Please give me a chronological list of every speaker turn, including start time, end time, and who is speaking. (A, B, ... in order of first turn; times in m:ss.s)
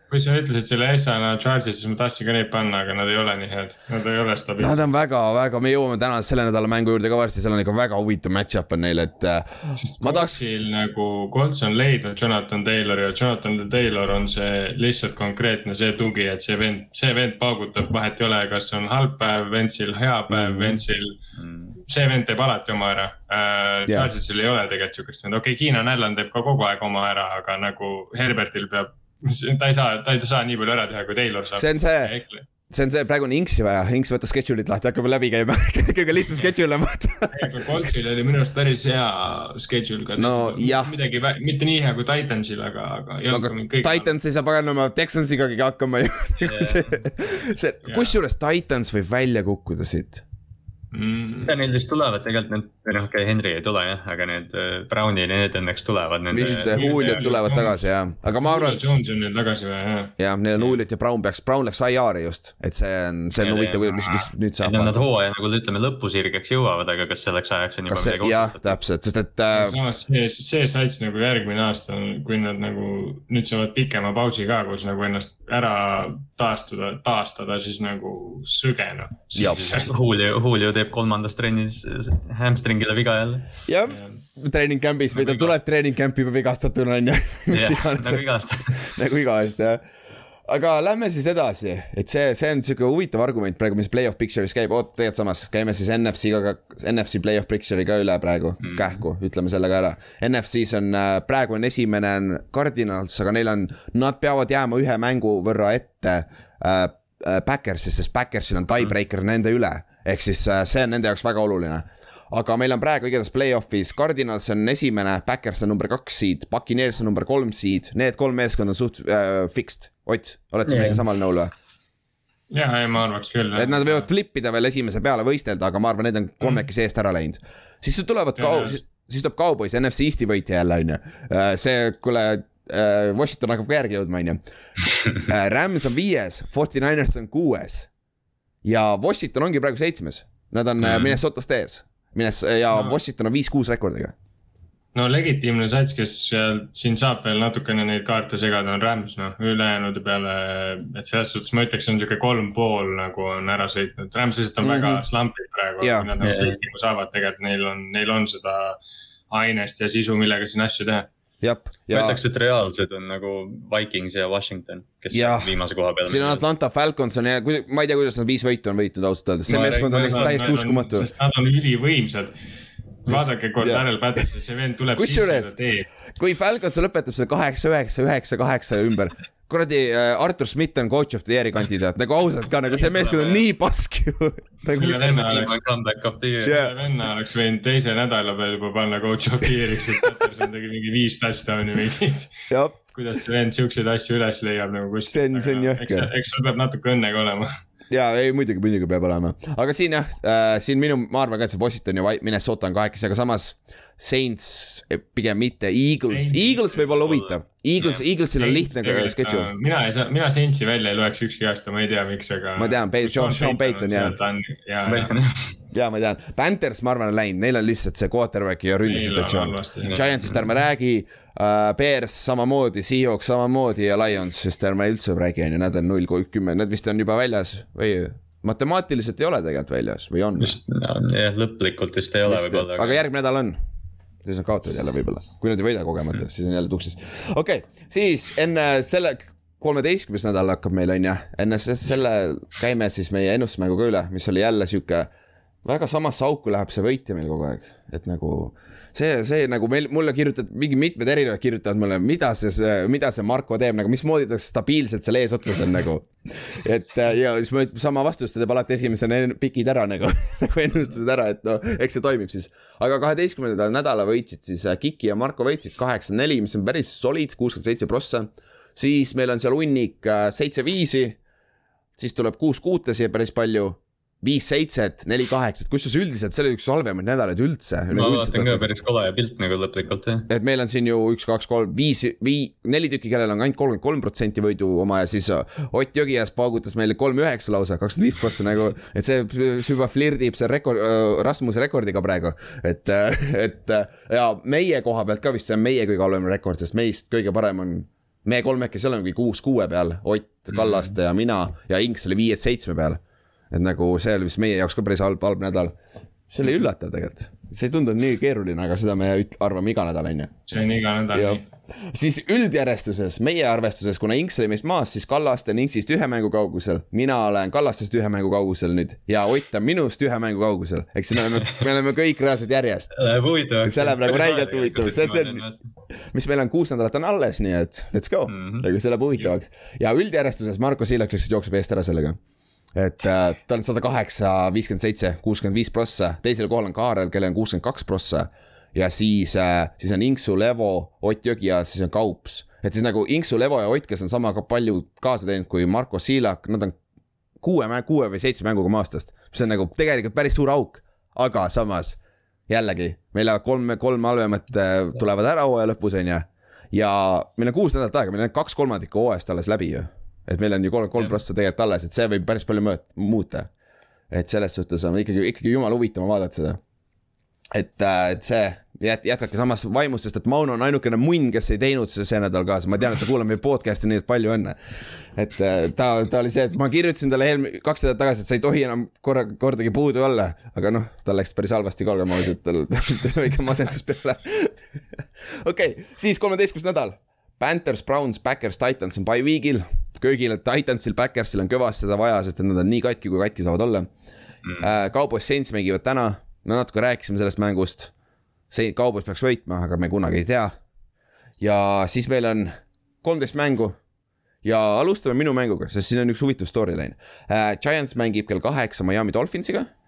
0:00.1-0:04.8 A
0:04.6-0:10.4 B
0:09.7-0:21.2 A
0:20.3-0:20.8 B
0:21.4-0:21.8 C
0:21.9-0:32.5 A
0:31.6-0:32.1 B
0:32.7-0:37.6 B
0:37.3-0:44.1 A
0:40.2-0:40.9 B
0:43.3-0:50.2 B
0:46.4-0:47.0 C
0:47.9-0:48.2 A
0:50.9-0:51.5 A
0:51.5-0:57.1 C
0:56.3-0:58.8 B
0:56.5-0:57.8 A
0:58.4-1:00.1 A
1:00.2-1:05.0 B
1:03.4-1:08.8 C
1:07.9-1:09.8 B
1:09.5-1:19.9 A
1:19.4-1:19.8 B
1:19.4-1:23.5 C
1:23.7-1:29.8 B
1:23.9-1:24.2 A
1:25.1-1:25.5 C
1:27.5-1:28.9 C
1:30.5-2:01.5 B
1:38.6-1:39.0 C
2:00.7-2:01.0 C
2:02.5-2:04.1 A
2:03.5-2:14.4 B
2:08.4-2:08.8 A
2:15.2-2:17.9 B
2:18.6-2:24.1 B
2:20.8-2:21.2 C
2:25.0-2:38.8 A
2:34.6-2:35.0 B
2:35.8-2:36.1 B
2:36.2-2:36.6 C
2:39.3-2:41.1 A
2:41.4-2:42.2 B
2:41.9-2:46.4 C
2:45.1-2:45.5 B
2:46.0-2:51.1 B
2:49.5-2:50.1 C
2:49.5-2:52.4 A
2:53.0-2:55.9 A
2:53.1-2:54.2 B
2:55.0-2:55.5 B
2:56.2-3:05.1 B
3:02.7-3:03.4 C
3:04.7-3:06.6 C
3:04.7-3:05.6 A
3:06.4-3:06.7 B
3:06.4-3:12.4 A
3:12.5-3:12.8 B
3:12.9-3:17.6 A
3:15.1-3:16.1 B
3:17.9-3:29.5 B
3:26.1-3:27.2 A
3:27.8-3:28.0 C
3:28.4-3:35.1 A
3:32.6-3:34.2 B
3:34.9-3:35.6 C
3:35.7-3:50.6 B
3:38.8-3:39.9 A
3:39.9-3:40.4 C
3:50.4-3:53.0 C
3:52.3-3:53.6 B
3:54.2-4:05.1 B
4:05.6-4:31.2 B
4:32.0-4:38.7 B
4:37.9-4:40.3 C
4:40.3-5:03.0 B
5:03.5-5:05.7 B
5:06.3-5:10.4 B
5:10.5-5:11.4 A
5:11.1-5:23.0 B
5:23.0-5:25.6 C
5:23.6-5:25.4 B
5:26.1-5:32.2 B
5:28.3-5:28.7 C
5:32.8-5:46.8 B
5:47.4-6:03.5 B
6:04.1-6:06.6 B
6:07.5-6:14.6 B
6:15.2-6:24.6 B
6:25.3-6:33.9 B
6:34.6-6:37.9 B
6:38.5-6:40.5 B
6:41.4-6:43.8 B
6:44.4-6:49.7 B